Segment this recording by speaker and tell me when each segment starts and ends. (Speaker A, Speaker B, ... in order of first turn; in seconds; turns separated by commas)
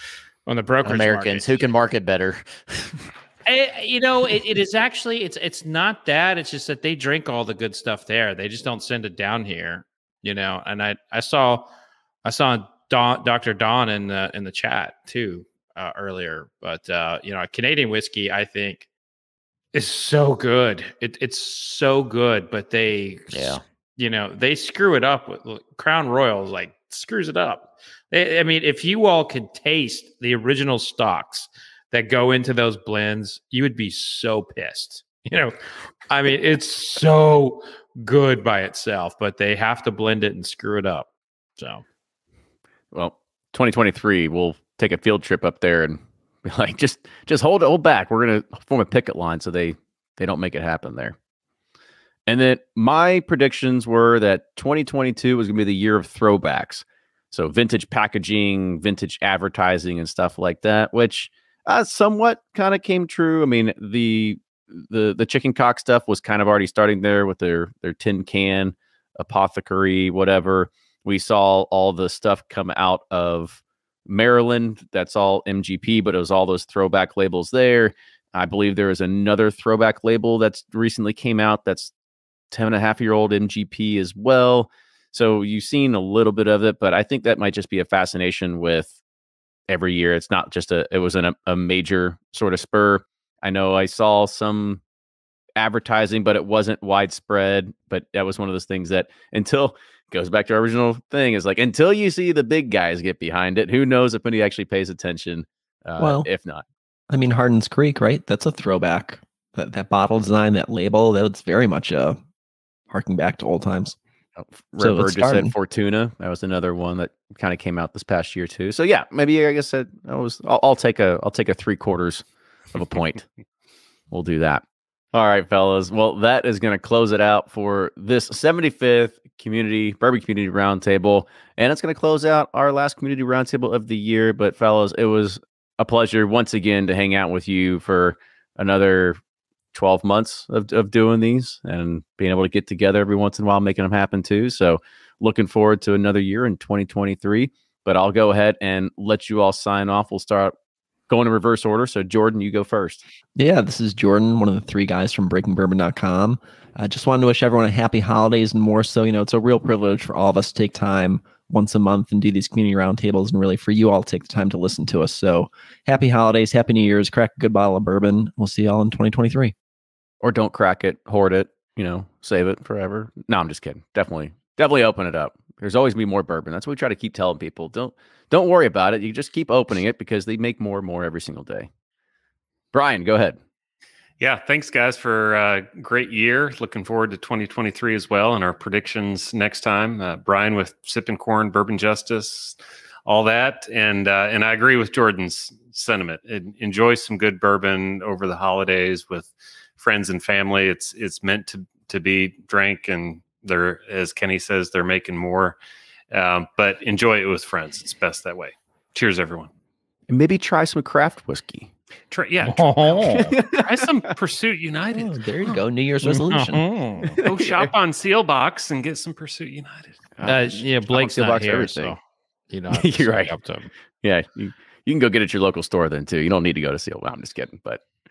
Speaker A: 0.5-1.6, Speaker B: 0.8-2.9, Speaker A: 3.4-11.7, Speaker A: 12.2-18.9, Speaker A: 19.7-35.6, Speaker B: 23.3-23.6, Speaker A: 36.1-41.8, Speaker C: 42.9-51.1, Speaker C: 52.3-81.9, Speaker C: 82.5-88.9, Speaker C: 89.7-94.8, Speaker C: 95.6-106.6, Speaker D: 106.0-106.3, Speaker D: 107.1-112.2, Speaker D: 112.9-114.0, Speaker C: 114.3-123.2, Speaker D: 114.8-115.5, Speaker C: 124.1-139.2, Speaker C: 139.7-150.5, Speaker C: 151.1-153.0, Speaker D: 153.3-169.5, Speaker C: 170.2-181.7, Speaker C: 182.7-183.4, Speaker E: 184.2-205.6, Speaker E: 206.1-209.5, Speaker C: 210.1-211.7, Speaker E: 212.1-215.6, Speaker A: 212.4-213.3, Speaker C: 213.1-213.7, Speaker D: 214.9-216.6, Speaker A: 216.0-217.2, Speaker E: 217.2-220.0, Speaker C: 217.3-217.7, Speaker C: 220.2-221.9, Speaker A: 220.2-222.0, Speaker A: 222.5-223.7, Speaker C: 222.7-223.3, Speaker C: 224.0-227.8